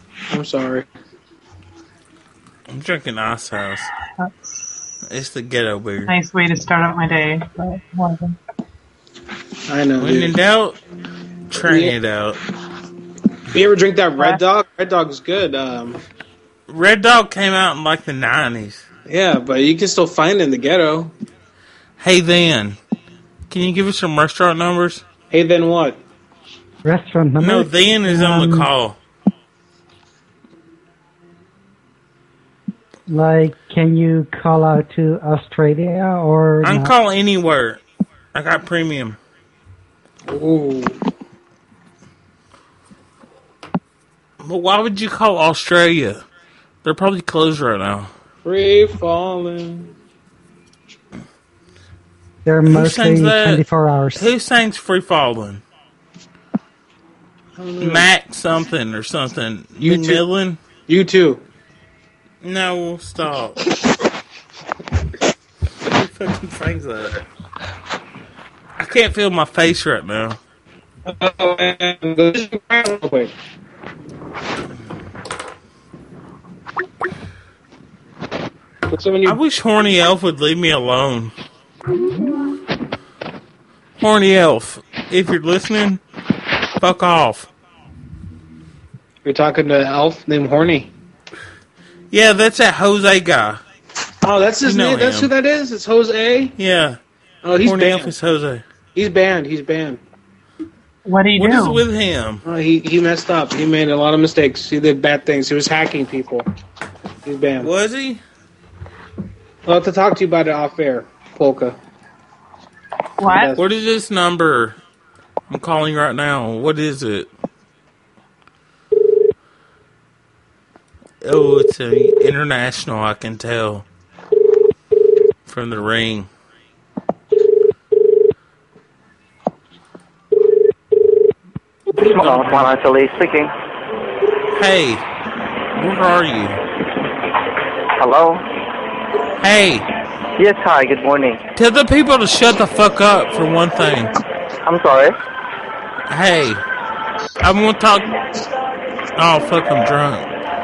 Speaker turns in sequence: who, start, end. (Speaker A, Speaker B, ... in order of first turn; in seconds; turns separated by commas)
Speaker A: 0.3-0.9, Speaker B: 2.7-3.9, Speaker C: 4.2-4.8, Speaker B: 5.1-6.1, Speaker C: 6.1-8.4, Speaker A: 9.7-10.3, Speaker B: 10.0-10.8, Speaker B: 11.5-12.4, Speaker A: 11.6-11.9, Speaker A: 13.5-16.0, Speaker B: 16.7-18.9, Speaker A: 19.1-21.1, Speaker B: 22.0-22.8, Speaker B: 23.5-25.0, Speaker A: 25.3-26.0, Speaker D: 26.8-28.7, Speaker B: 27.4-29.0, Speaker D: 33.1-36.9, Speaker B: 36.6-37.8, Speaker B: 38.3-39.2, Speaker A: 40.3-41.0, Speaker B: 44.4-46.2, Speaker B: 46.8-48.1, Speaker A: 48.4-49.9, Speaker D: 52.4-54.3, Speaker B: 52.6-55.6, Speaker A: 57.6-58.1, Speaker B: 57.8-60.6, Speaker A: 59.8-60.2, Speaker A: 60.9-61.4, Speaker B: 62.4-63.6, Speaker B: 65.9-67.2, Speaker B: 68.8-70.4, Speaker A: 71.1-73.3, Speaker A: 78.9-79.4, Speaker B: 79.2-81.3, Speaker B: 84.0-86.0, Speaker B: 86.8-87.5, Speaker A: 89.2-90.9, Speaker B: 92.1-93.6, Speaker A: 94.2-96.5, Speaker B: 94.6-95.3, Speaker B: 96.5-97.0, Speaker A: 97.4-98.1, Speaker B: 97.6-98.6, Speaker A: 98.9-100.0, Speaker C: 101.0-101.8, Speaker B: 101.3-102.4, Speaker A: 102.4-106.5, Speaker A: 107.2-107.7, Speaker B: 107.6-108.2, Speaker A: 109.7-111.8, Speaker C: 113.2-113.6, Speaker A: 113.2-113.6, Speaker B: 113.5-114.8, Speaker B: 115.5-117.3, Speaker B: 121.2-123.8, Speaker B: 125.5-126.3, Speaker E: 132.0-133.5, Speaker B: 132.2-132.6, Speaker B: 134.5-135.0, Speaker B: 135.7-136.6, Speaker E: 138.0-138.4, Speaker B: 139.4-139.8, Speaker E: 140.4-141.4, Speaker B: 141.6-144.1, Speaker E: 144.7-145.1, Speaker B: 146.1-146.6, Speaker B: 147.4-148.1, Speaker B: 149.1-150.3